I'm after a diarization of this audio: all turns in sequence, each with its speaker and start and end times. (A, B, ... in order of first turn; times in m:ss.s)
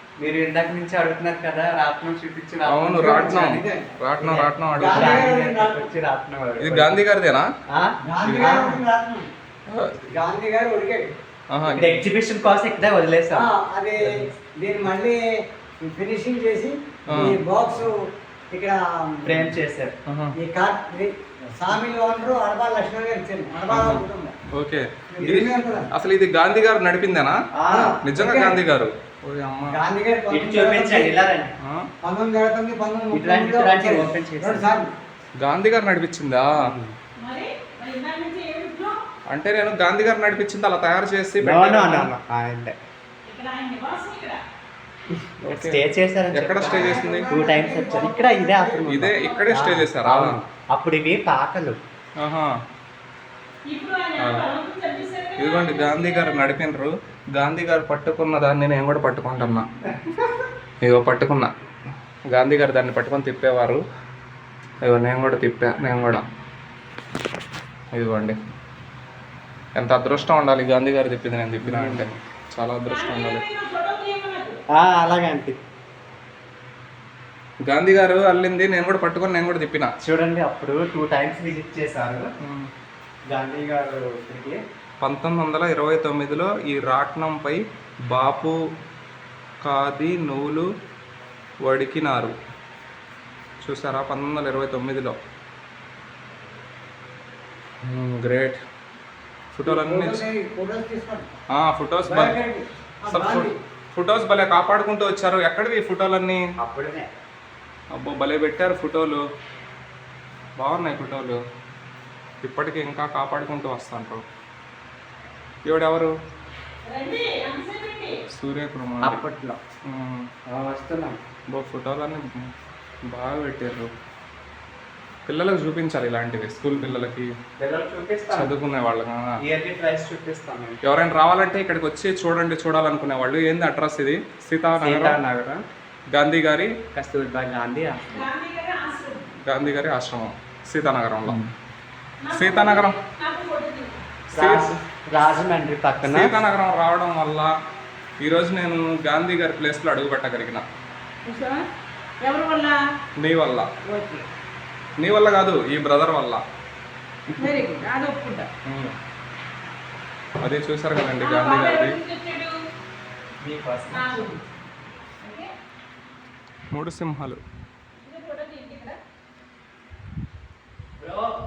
0:00.2-0:03.6 A
0:02.7-0:05.3 B
0:02.9-0:04.0 C
0:04.2-0:07.0 A
0:04.7-0:05.9 C
0:06.6-0:07.4 B
0:07.7-0:08.8 A
0:08.0-0:09.3 C
0:08.2-0:08.6 B
0:09.7-0:10.1 B
0:10.1-0:11.1 C
0:11.5-0:12.0 B
0:11.7-0:13.5 A
0:13.3-0:15.2 C
0:14.0-0:14.3 A
0:15.8-0:18.0 C
0:17.1-0:17.4 B
0:17.1-0:17.4 A
0:18.5-0:19.6 C
0:19.2-0:19.9 A
0:20.1-0:20.3 B
0:20.4-0:24.3 C
0:23.7-0:24.0 B
0:24.6-0:27.3 B
0:25.1-0:25.9 C
0:25.2-0:25.5 A
0:27.5-0:28.6 A
0:27.7-0:28.5 C
0:28.0-0:29.8 B
0:29.7-0:31.2 C
0:30.3-0:31.5 A
0:31.6-0:31.9 B
0:32.0-0:34.9 C
0:33.1-0:34.7 A
0:35.4-0:36.5 B
0:36.6-0:36.9 A
0:37.2-0:39.0 D
0:39.3-0:42.1 B
0:41.4-0:42.8 A
0:43.2-0:44.4 D
0:45.1-0:51.8 A
0:45.4-0:47.3 B
0:46.6-0:49.0 C
0:48.8-0:50.4 B
0:49.1-0:49.6 D
0:52.2-0:52.5 B
0:53.7-0:56.4 D
0:54.2-0:54.5 B
0:55.4-0:59.7 B
0:59.8-1:00.4 A
1:00.8-1:01.5 B
1:02.3-1:03.8 B
1:04.8-1:06.2 B
1:07.9-1:08.4 B
1:09.8-1:13.4 B
1:11.6-1:12.1 A
1:12.8-1:14.6 D
1:14.7-1:15.6 A
1:17.6-1:19.9 B
1:20.0-1:22.3 A
1:22.4-1:22.7 B
1:23.3-1:24.6 A
1:25.0-1:27.6 B
1:28.1-1:28.5 B
1:29.6-1:30.6 B
1:31.6-1:32.3 B
1:33.6-1:35.1 B
1:37.8-1:38.6 B
1:39.5-1:40.2 B
1:39.6-1:41.3 C
1:41.5-1:42.4 B
1:42.0-1:43.5 C
1:43.1-1:46.4 B
1:46.6-1:47.1 A
1:47.9-1:49.2 B
1:50.6-1:51.4 B
1:52.4-1:54.2 B
1:55.6-1:56.1 B
1:56.8-1:58.2 D
1:58.3-1:59.2 B
1:59.0-1:59.6 A
1:59.9-2:00.3 B
2:00.5-2:01.2 A
2:01.5-2:02.5 B
2:03.1-2:03.9 B
2:05.3-2:07.3 B
2:07.6-2:08.5 A
2:08.3-2:09.2 B
2:09.4-2:10.8 A
2:10.8-2:15.2 B
2:14.8-2:15.6 A
2:16.1-2:16.7 B
2:16.9-2:18.3 A
2:18.1-2:19.4 D
2:19.4-2:21.5 B
2:22.2-2:24.0 D
2:22.3-2:23.0 B
2:24.3-2:26.3 A
2:24.3-2:24.7 B
2:26.0-2:27.5 B
2:28.2-2:30.6 B
2:31.2-2:31.7 D
2:32.2-2:32.8 D
2:33.2-2:33.7 B
2:33.8-2:34.2 D
2:35.0-2:36.4 B
2:37.3-2:38.5 D
2:38.6-2:39.0 B
2:40.4-2:42.0 B
2:41.2-2:42.5 D
2:43.4-2:44.3 A
2:43.9-2:44.4 D
2:45.2-2:45.5 D
2:46.7-2:47.4 B
2:48.0-2:49.0 D
2:51.0-2:51.3 A